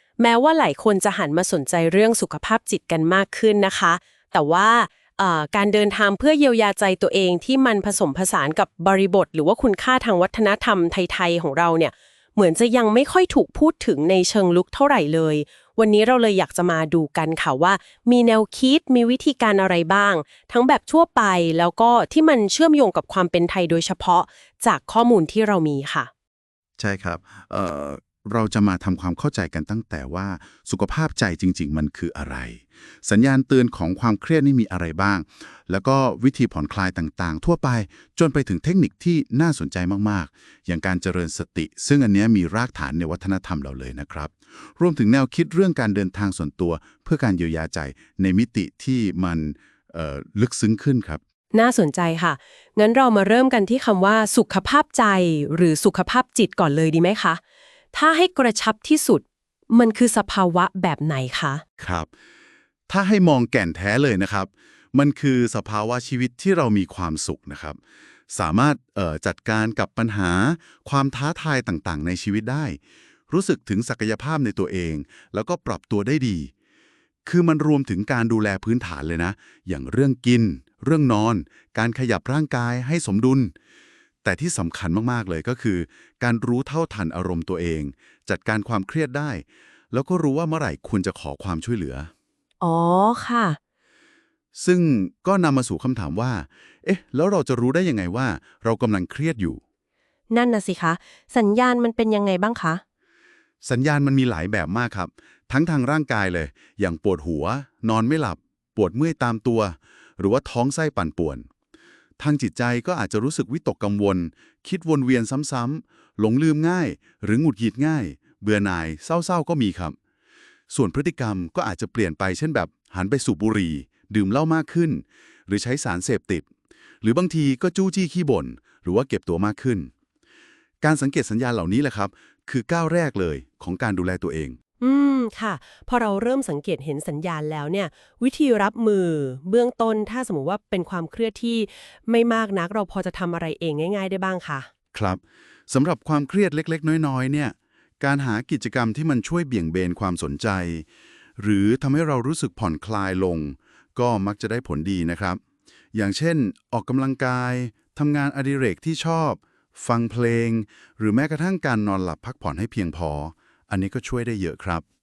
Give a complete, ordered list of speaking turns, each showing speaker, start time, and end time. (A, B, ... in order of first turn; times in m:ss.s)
0:00.2-0:26.1 A
0:26.8-0:51.2 B
0:51.5-0:57.4 A
0:57.9-1:01.6 A
1:01.8-1:02.1 B
1:02.9-1:07.8 B
1:08.3-1:16.5 B
1:17.2-1:23.5 B
1:24.2-1:32.1 B
1:32.6-1:33.6 A
1:34.6-1:39.6 B
1:40.3-1:42.8 A
1:43.6-1:51.5 B
1:52.2-2:00.0 B
2:00.7-2:06.5 B
2:07.0-2:09.9 B
2:10.8-2:14.6 B
2:14.8-2:24.7 A
2:24.9-2:30.9 B
2:31.4-2:35.4 B
2:35.9-2:44.8 B